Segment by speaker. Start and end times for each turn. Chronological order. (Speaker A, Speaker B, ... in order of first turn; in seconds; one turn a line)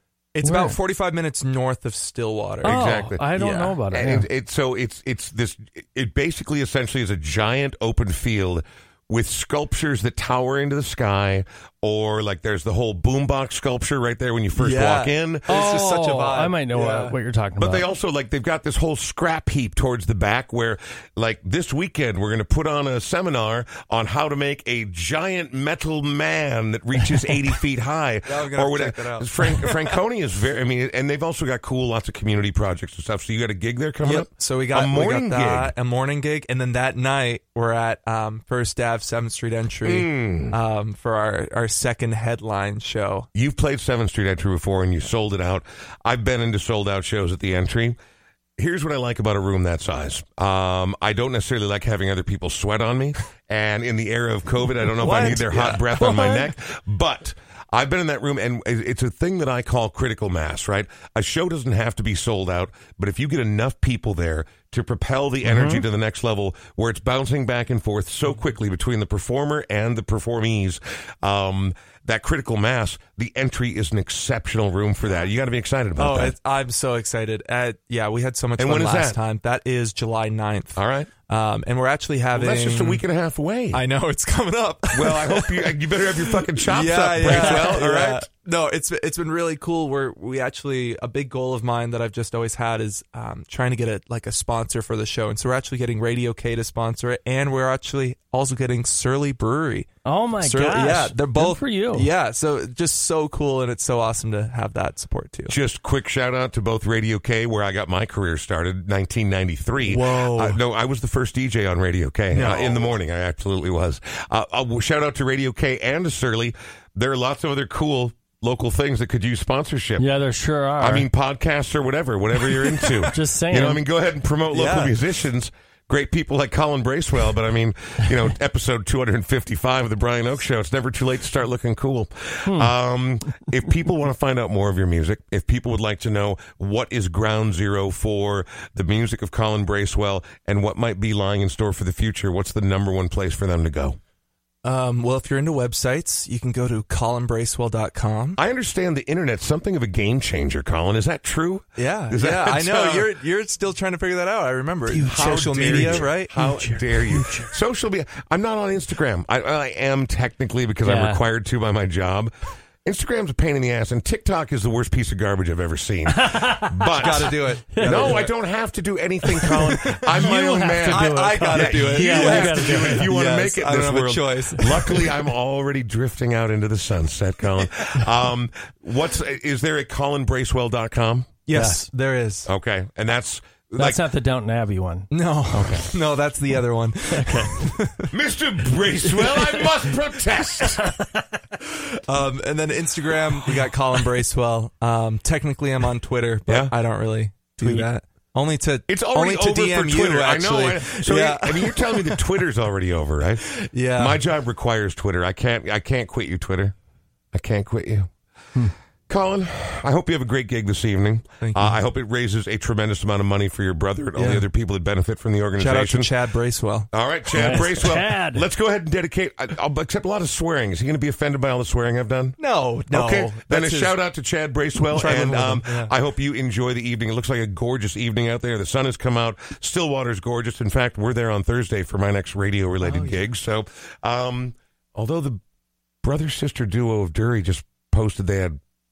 Speaker A: 0.3-2.8
Speaker B: 0.4-0.8
Speaker C: 2.6-3.2
Speaker B: 2.6-4.3
Speaker A: 3.4-3.8
Speaker C: 3.9-15.6
Speaker A: 14.6-17.1
Speaker B: 15.5-17.9
Speaker C: 17.6-35.7
Speaker A: 28.3-29.7
Speaker A: 34.0-43.3
Speaker C: 39.8-40.6
Speaker C: 43.3-48.0
Speaker C: 48.6-76.4
Speaker A: 54.9-56.5
Speaker B: 65.4-65.8
Speaker A: 76.0-83.0
Speaker C: 78.6-79.2
Speaker C: 80.8-81.1
Speaker C: 82.3-83.8
Speaker A: 83.7-99.9
Speaker C: 84.9-88.3
Speaker B: 87.2-87.8
Speaker B: 100.0-102.1
Speaker A: 100.4-105.5
Speaker C: 105.5-120.0
Speaker A: 109.8-110.6
Speaker A: 112.3-112.8
Speaker B: 112.4-112.6
Speaker B: 120.0-121.1
Speaker C: 120.8-144.0
Speaker A: 122.8-123.1
Speaker B: 122.8-123.8
Speaker A: 124.5-125.0
Speaker B: 132.5-132.7
Speaker A: 144.6-148.4
Speaker C: 148.4-153.1
Speaker A: 151.8-156.3
Speaker B: 154.9-157.6
Speaker C: 155.0-162.3
Speaker B: 160.8-161.2
Speaker C: 162.8-181.3
Speaker B: 166.1-168.3
Speaker A: 166.9-168.3
Speaker B: 169.3-173.1
Speaker A: 169.4-175.1
Speaker B: 174.6-174.9
Speaker A: 181.4-182.5
Speaker B: 181.5-181.9
Speaker C: 182.5-184.0
Speaker B: 183.8-185.1
Speaker A: 185.1-188.1
Speaker C: 185.5-185.9
Speaker B: 187.1-187.5
Speaker C: 188.1-191.0
Speaker B: 189.0-189.9
Speaker B: 190.6-191.4
Speaker A: 192.1-202.2
Speaker C: 196.5-196.7
Speaker B: 197.6-197.9
Speaker C: 198.9-206.8
Speaker A: 203.6-204.2
Speaker C: 207.3-208.1
Speaker C: 209.1-216.1
Speaker A: 211.4-211.8
Speaker A: 214.2-214.4
Speaker A: 215.6-217.7
Speaker C: 216.9-222.4
Speaker B: 217.3-218.4
Speaker A: 222.4-223.9
Speaker C: 222.9-235.4
Speaker A: 224.8-225.9
Speaker A: 232.8-233.2
Speaker C: 236.0-238.6